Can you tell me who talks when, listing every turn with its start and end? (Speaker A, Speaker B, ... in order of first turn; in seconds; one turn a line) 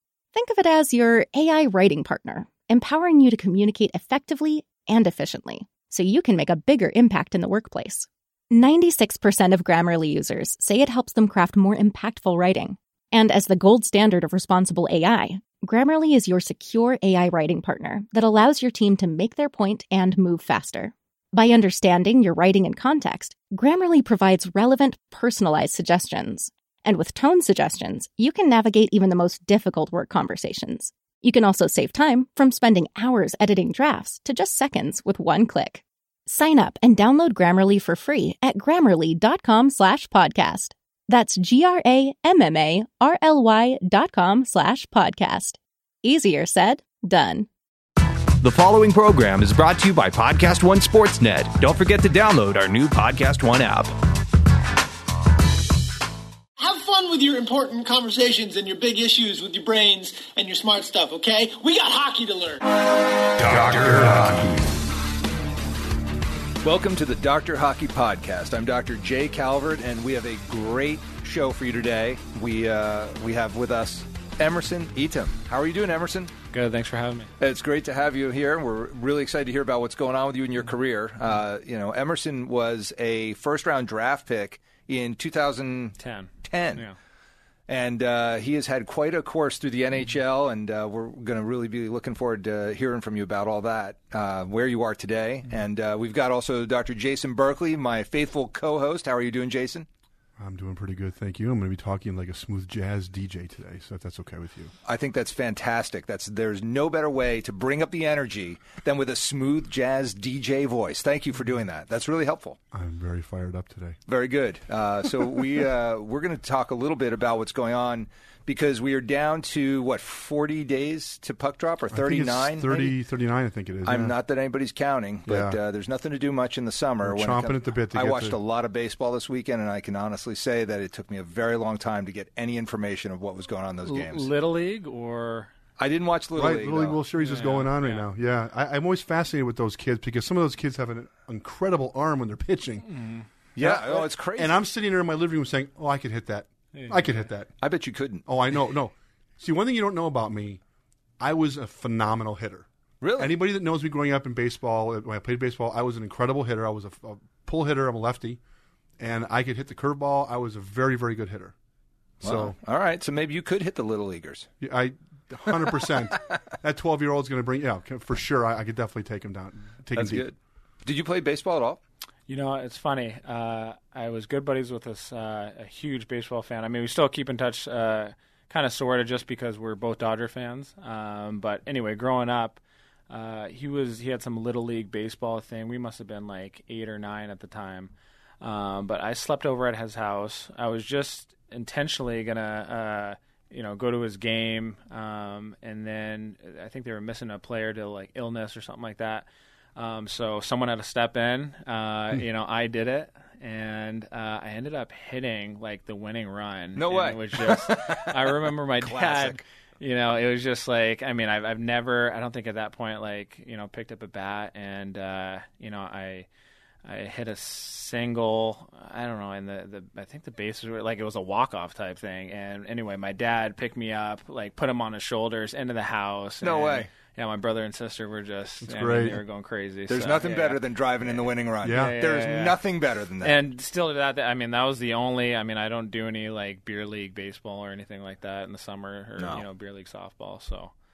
Speaker A: 0.3-47.5
Speaker B: 48.4-53.9
Speaker C: 56.6-62.6
Speaker B: 63.4-64.7
Speaker D: 63.8-64.4
Speaker D: 66.6-76.3
Speaker E: 76.5-77.3
Speaker D: 77.4-86.8
Speaker E: 86.0-87.0
Speaker D: 87.7-99.9
Speaker F: 100.4-104.7
Speaker D: 104.8-112.6
Speaker F: 112.7-114.0
Speaker D: 114.1-122.9
Speaker F: 121.9-124.1
Speaker D: 123.8-134.3
Speaker F: 125.2-125.6
Speaker F: 127.0-128.4
Speaker E: 133.8-135.5
Speaker D: 135.8-137.0
Speaker F: 136.3-142.9
Speaker E: 137.2-138.1
Speaker E: 142.8-143.3
Speaker D: 143.6-144.6
Speaker F: 143.6-147.5
Speaker E: 146.7-147.2
Speaker D: 147.6-148.2
Speaker F: 148.2-150.6
Speaker F: 151.2-158.4
Speaker D: 153.0-153.3
Speaker F: 159.0-161.5
Speaker F: 162.2-162.6
Speaker D: 162.2-164.5
Speaker F: 164.6-170.3
Speaker D: 169.9-171.8
Speaker E: 172.3-216.3
Speaker D: 206.8-209.4
Speaker E: 216.8-232.6
Speaker D: 226.4-226.9
Speaker F: 228.6-229.2
Speaker D: 229.9-233.3
Speaker F: 231.6-231.9
Speaker E: 233.2-240.7
Speaker D: 239.2-239.4